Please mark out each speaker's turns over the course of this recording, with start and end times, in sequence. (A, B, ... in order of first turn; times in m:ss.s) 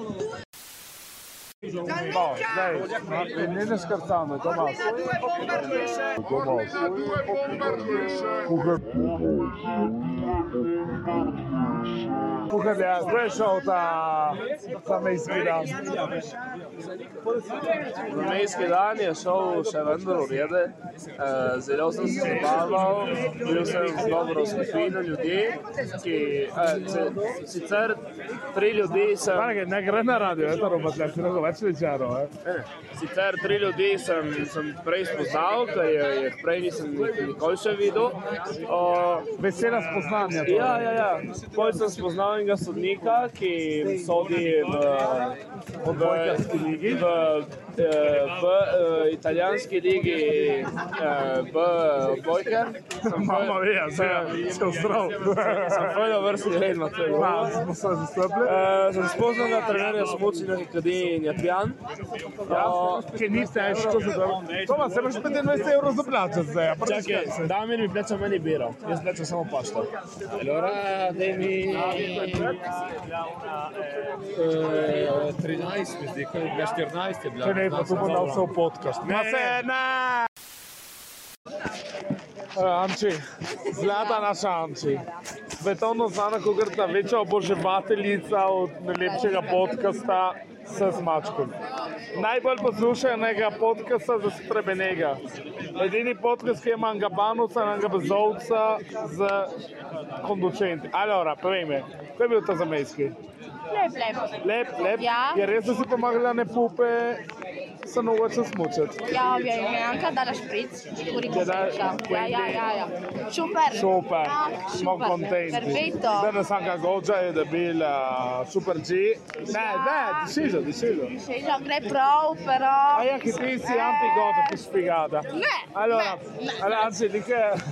0:01.8-0:07.0 A
0:08.3-0:09.0 A
0:12.5-0:15.8 A
0:18.1-0:29.6 B
0:22.2-0:23.4 A
0:29.3-0:32.3 A
0:32.4-0:39.3 B
0:39.4-0:40.9 A
0:40.4-0:54.5 B
0:45.8-0:47.0 A
0:53.0-0:55.9 A
0:55.2-0:57.6 B
0:57.1-0:58.6 A
0:58.4-1:01.8 B
1:02.5-1:03.4 B
1:02.5-1:07.5 A
1:06.8-1:09.9 B
1:10.3-1:12.5 C
1:11.7-1:12.5 B
1:12.0-1:12.4 A
1:14.2-1:18.5 C
1:17.4-1:19.7 A
1:19.0-1:19.3 C
1:19.1-1:20.0 B
1:22.6-1:25.1 A
1:23.8-1:24.3 D
1:25.6-1:31.6 A
1:29.0-1:29.8 D
1:32.1-1:35.2 A
1:35.8-1:39.6 A
1:40.2-1:43.2 A
1:43.7-1:44.4 D
1:44.4-1:47.2 A
1:44.9-1:45.4 D
1:47.8-1:49.0 A
1:49.1-1:56.3 D
1:51.2-1:52.7 A
1:53.7-2:01.2 A
1:59.5-2:00.4 D
2:01.1-2:04.6 D
2:02.9-2:07.6 A
2:05.3-2:07.0 D